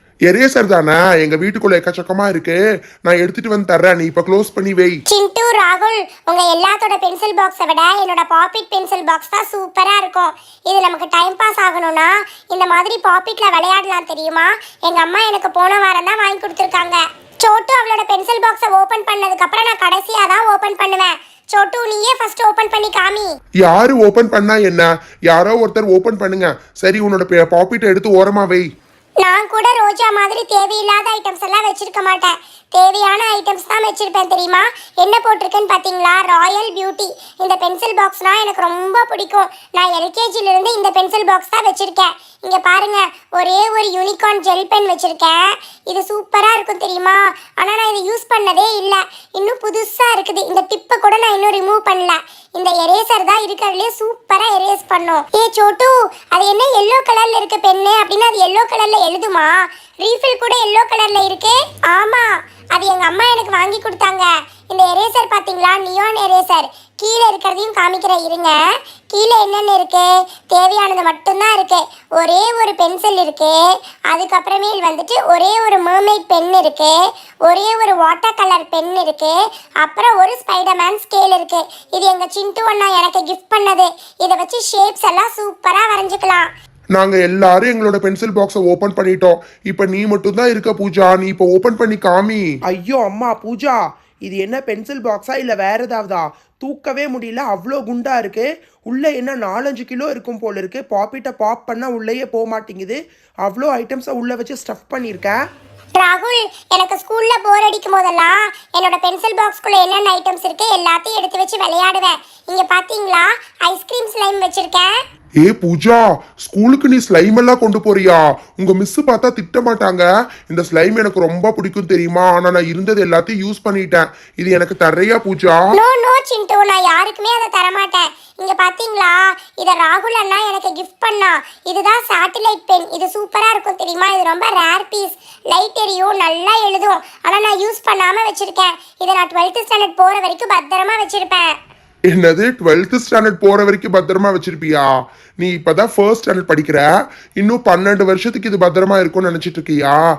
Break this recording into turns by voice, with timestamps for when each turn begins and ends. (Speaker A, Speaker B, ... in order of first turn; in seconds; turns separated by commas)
Speaker A: 0.3-5.0, Speaker B: 5.1-23.3, Speaker A: 23.6-28.6, Speaker B: 29.2-68.6, Speaker B: 69.1-86.5, Speaker A: 87.0-92.5, Speaker C: 92.7-105.4, Speaker B: 105.9-115.0, Speaker A: 115.4-125.6, Speaker B: 125.7-141.5, Speaker A: 142.1-144.9, Speaker A: 145.4-150.0